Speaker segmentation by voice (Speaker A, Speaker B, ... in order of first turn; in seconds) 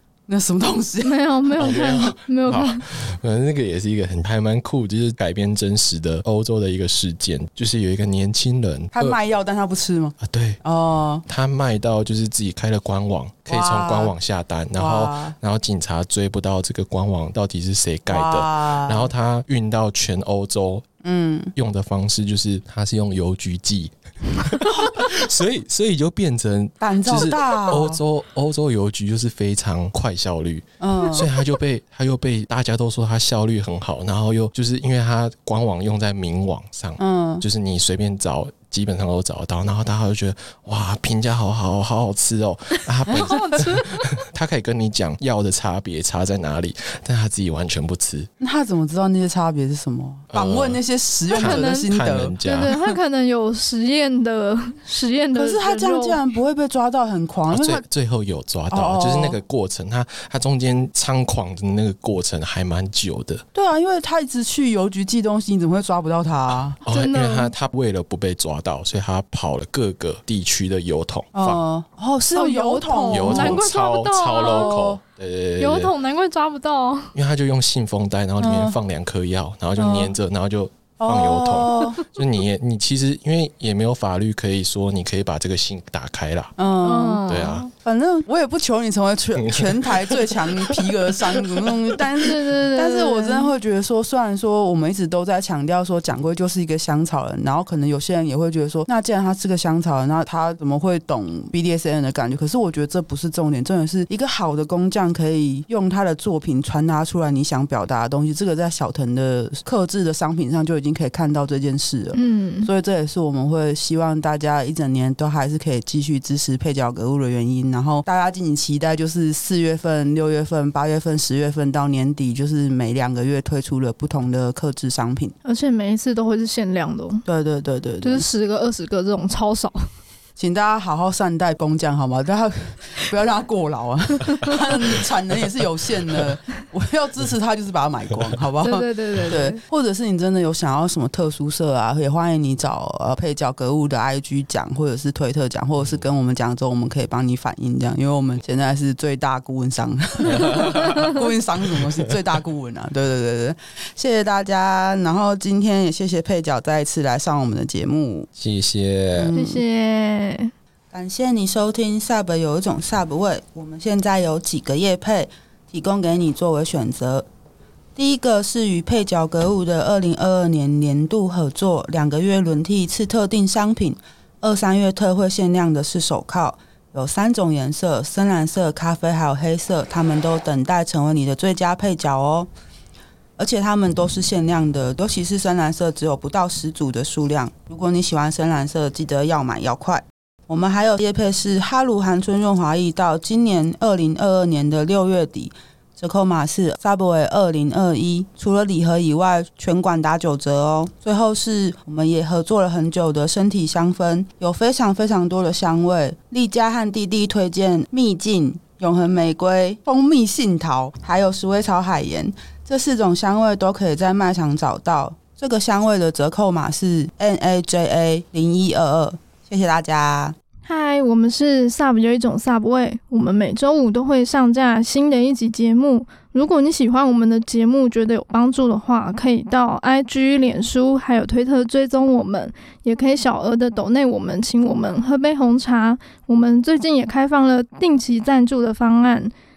Speaker A: 0.3-1.7, 8.9-11.2, 13.5-14.1, 14.8-15.3, 18.1-19.1, 21.0-21.5, 24.6-25.1, 26.8-28.0, 30.8-31.3, 37.0-37.4, 48.4-52.3, 55.3-57.8, 58.7-59.4, 63.5-66.8, 71.3-73.6, 74.4-75.0, 78.4-78.8, 79.8-80.2, 81.0-82.0, 86.6-125.3, 127.2-128.2, 130.4-158.3, 159.1-159.6, 160.9-167.2, 167.9-182.5, 183.4-220.3
Speaker B: 1.0-2.8, 43.1-44.1, 51.3-51.9, 52.4-56.2, 66.9-67.5, 72.3-74.9, 75.6-77.1, 86.8-87.7, 92.2-93.5, 112.1-112.7, 125.4-127.2, 128.0-129.9, 138.6-139.6, 159.3-160.5, 220.7-239.3
Speaker C: 1.6-9.2, 10.2-10.6, 11.2-20.9, 21.5-48.3, 50.3-50.8, 51.3-52.8, 57.5-63.4, 66.8-71.6, 73.1-75.9, 77.1-86.5, 87.3-87.7, 89.4-91.7, 150.4-150.9, 158.3-159.3